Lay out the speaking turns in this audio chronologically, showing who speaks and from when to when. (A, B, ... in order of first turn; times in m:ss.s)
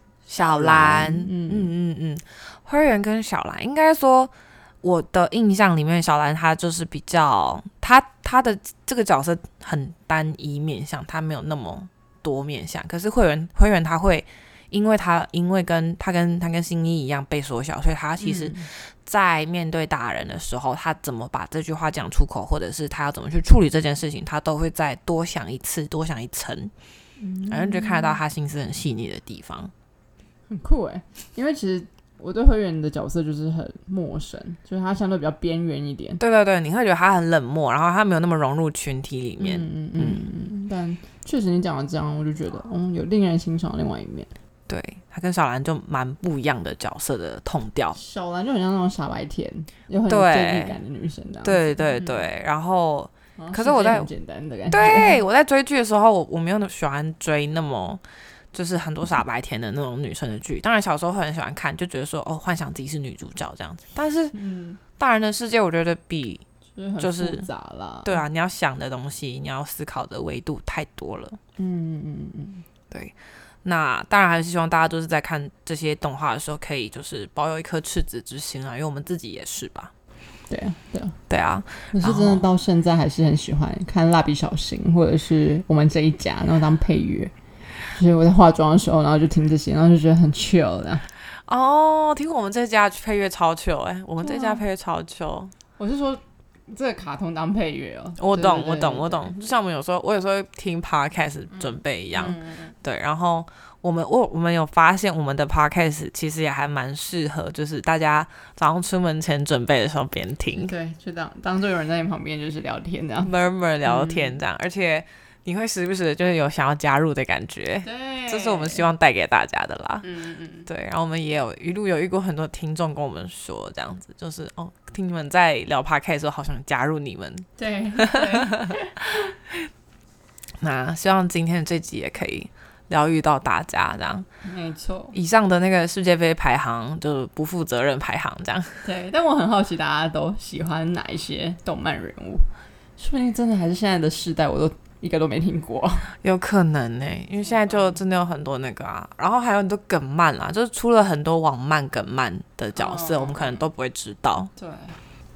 0:00.3-0:04.3 A
0:00.4-0:01.7 B
0:04.8-0:26.7 A
0:18.2-0:18.7 B
0:27.2-0:28.2 B
0:27.5-0:29.7 A
0:30.5-0:36.2 B
0:36.2-0:40.2 A
0:39.4-0:44.3 B
0:44.7-0:48.0 A
0:48.0-0:52.3 B
0:50.1-0:50.8 A
0:51.4-0:54.1 A
0:53.4-0:55.2 B
0:54.7-0:58.0 A
0:58.5-1:04.4 A
1:04.3-1:04.8 B
1:05.0-1:06.4 A
1:06.8-1:08.2 B
1:07.0-1:07.5 A
1:08.0-1:11.4 A
1:11.6-1:12.6 B
1:12.9-1:19.9 A
1:20.5-1:21.2 B
1:21.3-1:22.4 A
1:21.9-1:31.0 B
1:31.5-1:35.5 A
1:34.2-1:34.6 B
1:35.8-1:39.5 B
1:38.2-1:50.7 A
1:41.6-1:42.8 B
1:50.6-1:53.3 B
1:53.2-2:00.1 A
1:53.8-1:54.4 B
1:57.8-1:58.9 B
2:00.0-2:00.7 B
2:00.7-2:08.7 A
2:07.6-2:09.1 B
2:10.6-2:14.3 A
2:14.4-2:15.2 B
2:15.1-2:18.8 A
2:18.8-2:22.5 B
2:23.0-2:26.1 B
2:26.2-2:34.5 A
2:27.4-2:28.0 B
2:32.8-2:33.6 B
2:34.6-2:35.0 B